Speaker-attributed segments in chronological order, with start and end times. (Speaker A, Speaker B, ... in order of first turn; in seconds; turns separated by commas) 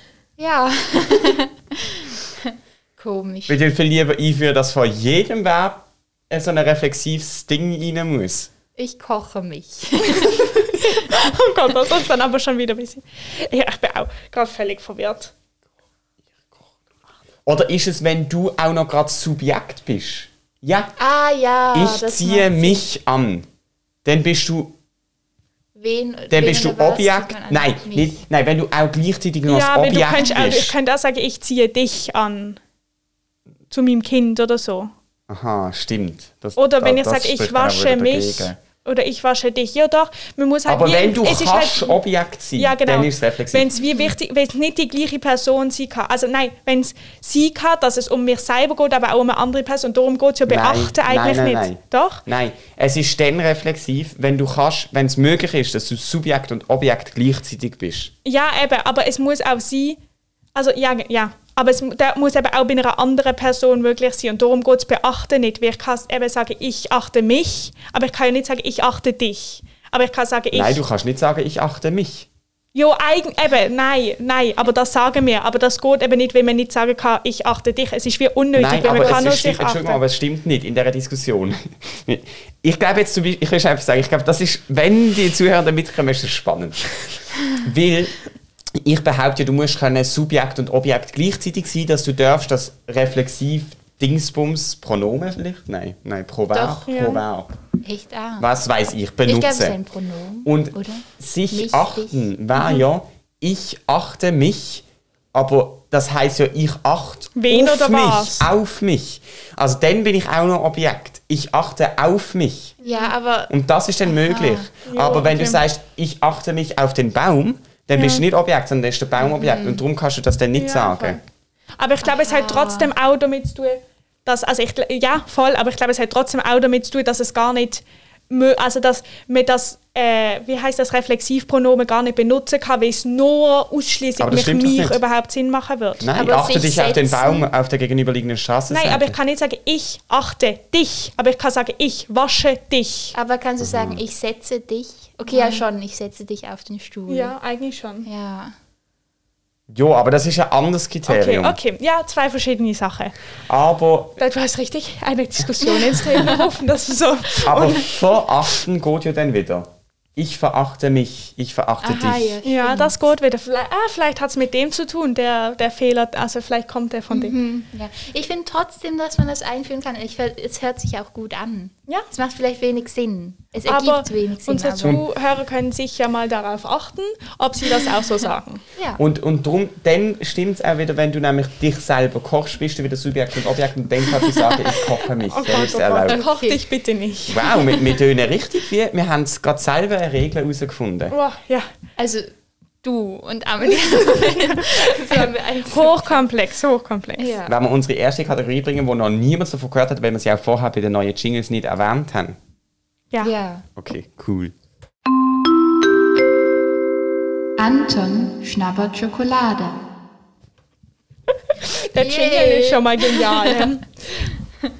Speaker A: 0.4-3.6, Speaker B: 3.5-8.5, Speaker A: 8.8-11.1, Speaker C: 10.2-15.3, Speaker B: 17.4-20.9, Speaker A: 21.0-22.8, Speaker B: 21.7-23.5, Speaker B: 24.0-24.7, Speaker A: 25.8-28.2, Speaker B: 26.3-30.7, Speaker C: 29.5-32.6, Speaker A: 30.2-30.6, Speaker C: 33.7-34.9, Speaker B: 35.3-38.6, Speaker C: 36.6-42.0, Speaker B: 40.6-43.8, Speaker C: 42.6-52.2, Speaker A: 43.8-44.1, Speaker B: 50.5-58.1, Speaker C: 58.2-60.0, Speaker C: 60.5-70.8, Speaker B: 70.5-72.3, Speaker C: 72.7-80.0, Speaker B: 78.5-88.2, Speaker A: 78.8-79.2, Speaker B: 88.8-97.5, Speaker A: 96.5-96.9, Speaker C: 96.9-97.2, Speaker A: 97.8-98.5, Speaker B: 98.4-99.8, Speaker A: 99.2-102.3, Speaker B: 100.4-112.8, Speaker C: 107.3-108.5, Speaker C: 112.8-113.1, Speaker A: 112.8-113.5, Speaker B: 113.5-121.2, Speaker A: 114.0-114.7, Speaker C: 114.8-115.6, Speaker C: 118.0-118.2, Speaker A: 119.2-119.8, Speaker C: 120.5-121.2, Speaker C: 121.8-136.1, Speaker A: 122.0-122.9, Speaker B: 134.2-135.0, Speaker B: 136.0-139.2, Speaker A: 136.2-137.5, Speaker C: 138.7-143.1, Speaker A: 143.1-147.3, Speaker B: 143.6-144.0, Speaker C: 145.3-145.6, Speaker C: 147.1-148.1, Speaker A: 148.0-148.5, Speaker B: 149.7-151.6, Speaker C: 151.1-153.1, Speaker B: 153.5-154.2, Speaker C: 154.2-157.8, Speaker A: 155.9-156.4, Speaker B: 157.4-162.3, Speaker A: 161.8-163.0, Speaker C: 162.4-167.3, Speaker A: 167.1-175.0, Speaker C: 173.7-178.6, Speaker B: 179.0-186.2, Speaker C: 185.3-187.6, Speaker A: 186.1-186.7, Speaker B: 187.3-191.2, Speaker C: 191.1-191.7, Speaker A: 192.0-192.3, Speaker A: 192.8-196.2, Speaker C: 193.7-197.3, Speaker A: 197.2-197.5, Speaker B: 197.5-202.4, Speaker A: 203.2-203.7, Speaker B: 203.8-204.5, Speaker A: 207.6-209.8, Speaker C: 211.6-213.9, Speaker A: 212.0-213.7